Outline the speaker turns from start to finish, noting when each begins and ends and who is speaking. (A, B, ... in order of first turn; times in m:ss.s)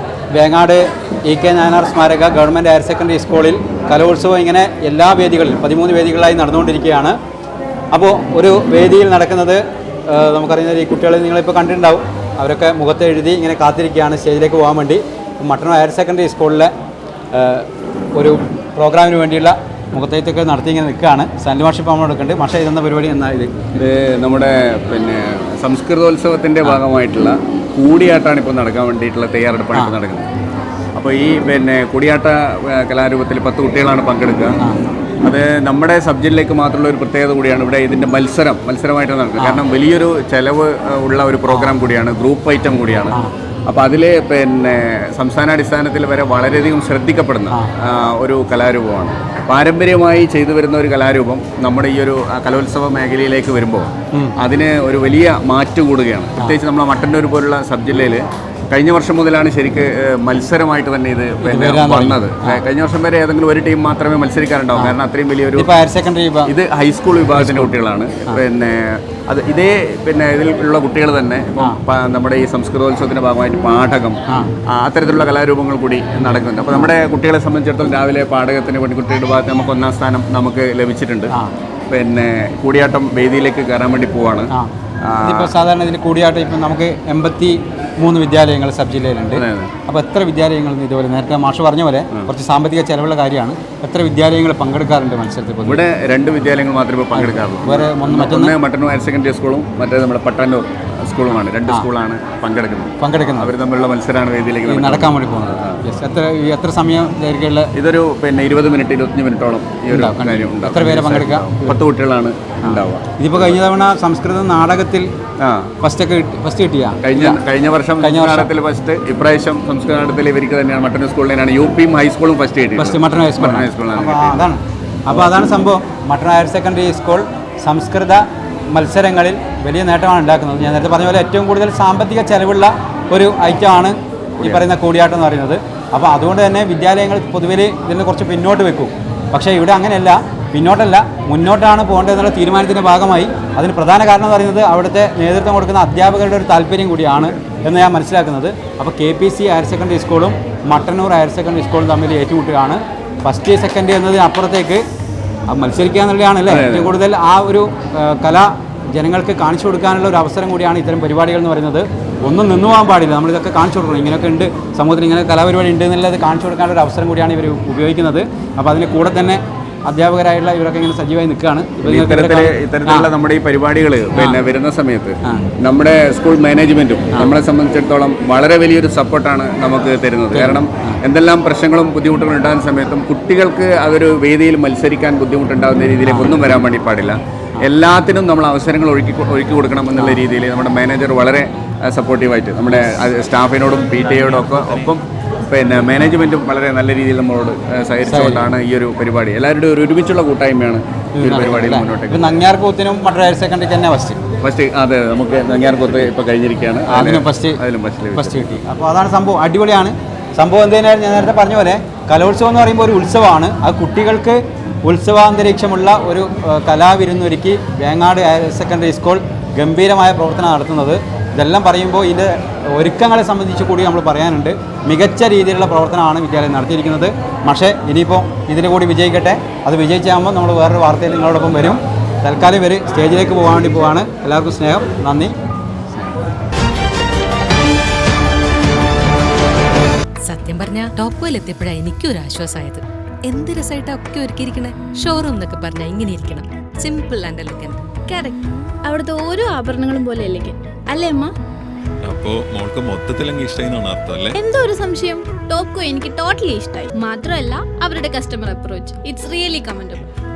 0:00.3-0:07.2 A
0:07.9-0:16.7 A
0:17.3-0:23.5 A
0:23.7-0:30.3 B
0:31.0-0:34.6 B
0:35.2-1:05.7 B
1:01.4-1:02.6 A
1:05.6-1:06.5 A
1:06.4-1:21.3 B
1:07.3-1:07.8 A
1:16.2-1:16.9 A
1:21.9-1:25.5 B
1:25.2-1:35.8 A
1:29.3-1:29.7 B
1:35.6-1:45.8 B
1:37.2-1:38.6 A
1:43.0-1:43.5 A
1:44.7-1:47.7 A
1:47.7-1:53.6 B
1:49.9-1:51.8 A
1:52.6-1:55.1 A
1:55.4-1:55.7 B
1:55.8-1:57.4 A
1:57.0-2:04.4 B
1:58.0-1:58.5 A
2:02.8-2:34.8 A
2:14.4-2:14.6 B
2:35.5-2:53.1 A
2:36.5-2:36.9 B
2:51.8-3:22.3 B
2:54.1-2:54.4 A
3:00.3-3:01.0 A
3:06.1-3:06.3 A
3:10.0-3:10.2 A
3:18.0-3:18.5 A
3:21.2-3:24.2 A
3:24.4-3:28.6 B
3:26.9-3:27.6 A
3:28.1-3:55.3 A
4:00.2-4:07.8 C
4:08.1-4:11.3 D
4:12.0-4:14.3 E
4:14.3-4:20.0 D